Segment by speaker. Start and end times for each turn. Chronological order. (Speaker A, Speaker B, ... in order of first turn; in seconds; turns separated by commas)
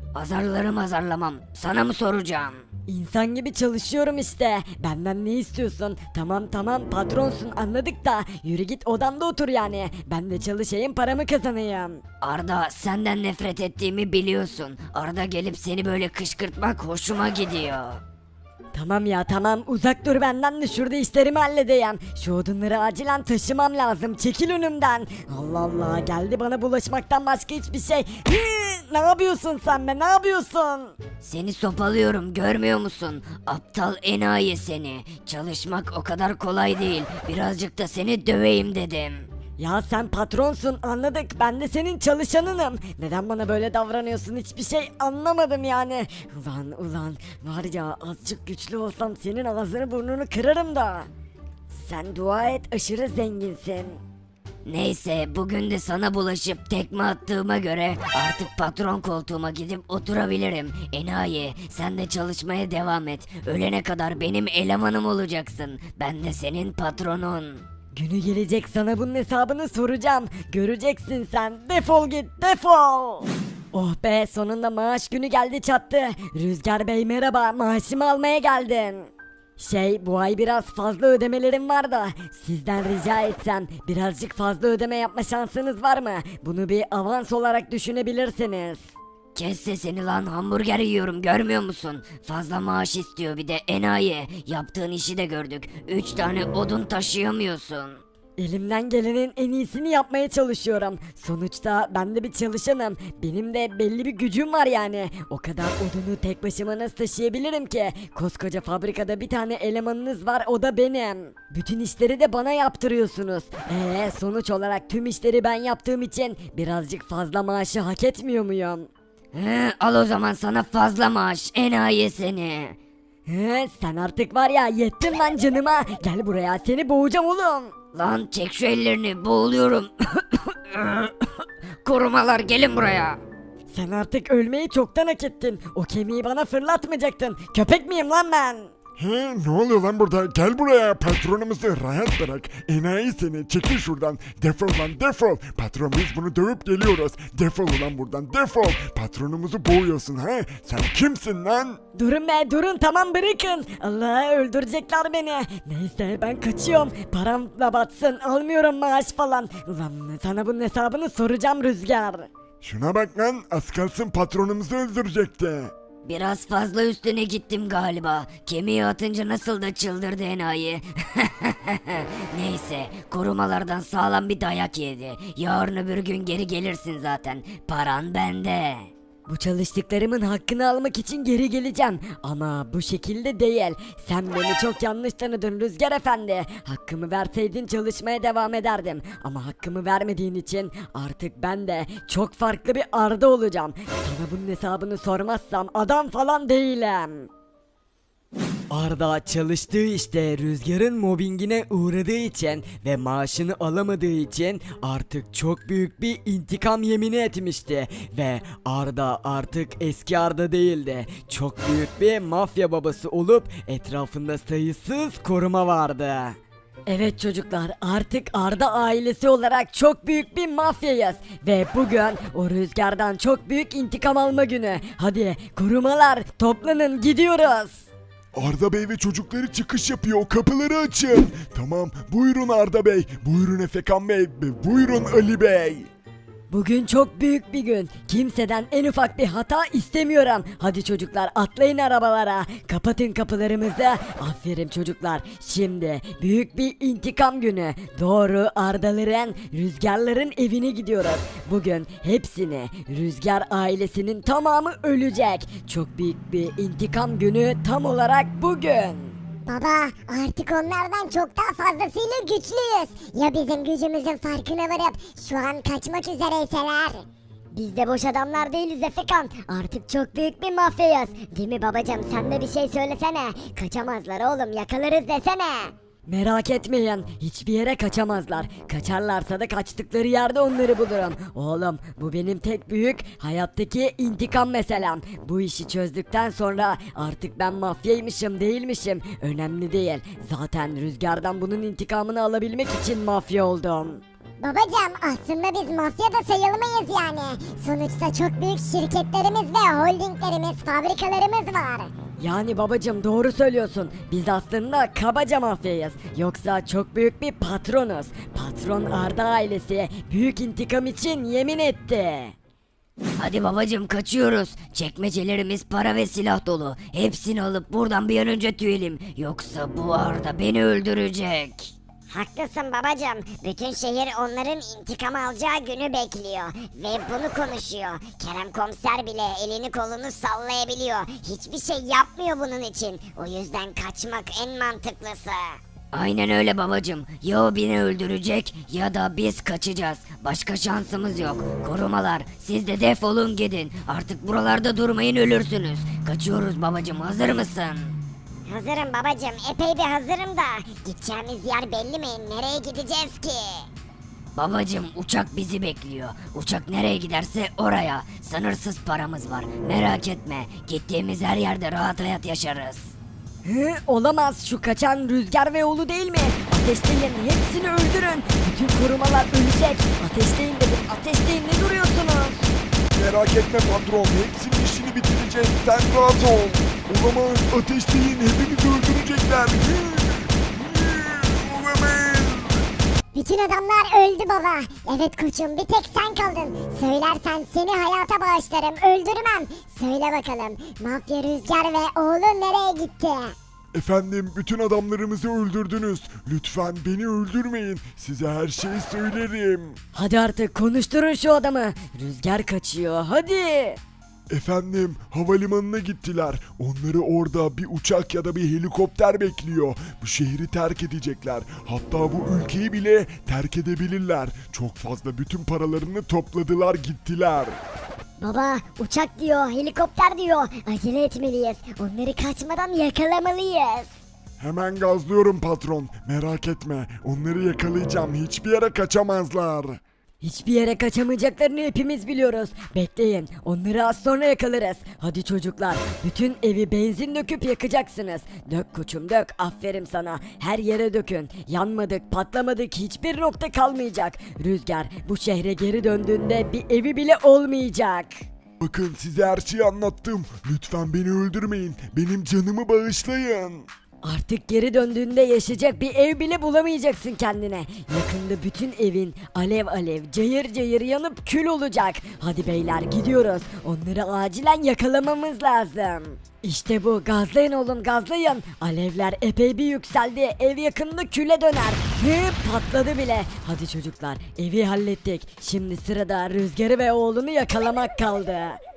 Speaker A: 0.1-2.6, Speaker B: 2.9-12.0, Speaker A: 12.2-18.0, Speaker B: 18.7-31.0, Speaker A: 31.2-39.3, Speaker B: 39.6-51.1, Speaker B: 51.7-54.0, Speaker A: 54.7-67.7, Speaker B: 67.9-88.9, Speaker A: 89.3-98.0, Speaker B: 98.4-118.9, Speaker A: 119.3-122.8, Speaker B: 123.3-127.7, Speaker A: 127.9-133.2, Speaker B: 133.7-138.7, Speaker C: 139.0-151.8, Speaker B: 151.9-162.3, Speaker C: 162.6-165.7, Speaker A: 166.1-178.9, Speaker B: 179.3-197.3, Speaker B: 198.7-227.9, Speaker C: 228.3-235.9, Speaker B: 236.5-259.2, Speaker D: 259.5-275.7, Speaker B: 276.1-294.0, Speaker D: 294.4-301.9, Speaker B: 302.2-312.4, Speaker A: 313.2-321.7, Speaker D: 322.1-335.6, Speaker A: 335.9-348.0, Speaker D: 348.5-353.7, Speaker A: 354.4-362.9, Speaker B: 363.4-372.5, Speaker C: 372.9-382.6, Speaker D: 383.1-393.4, Speaker C: 393.7-399.8, Speaker B: 399.9-403.8, Speaker C: 404.3-417.6, Speaker D: 418.2-423.9, Speaker C: 424.4-429.8, Speaker B: 430.2-448.2, Speaker C: 448.6-453.7, Speaker B: 454.0-478.6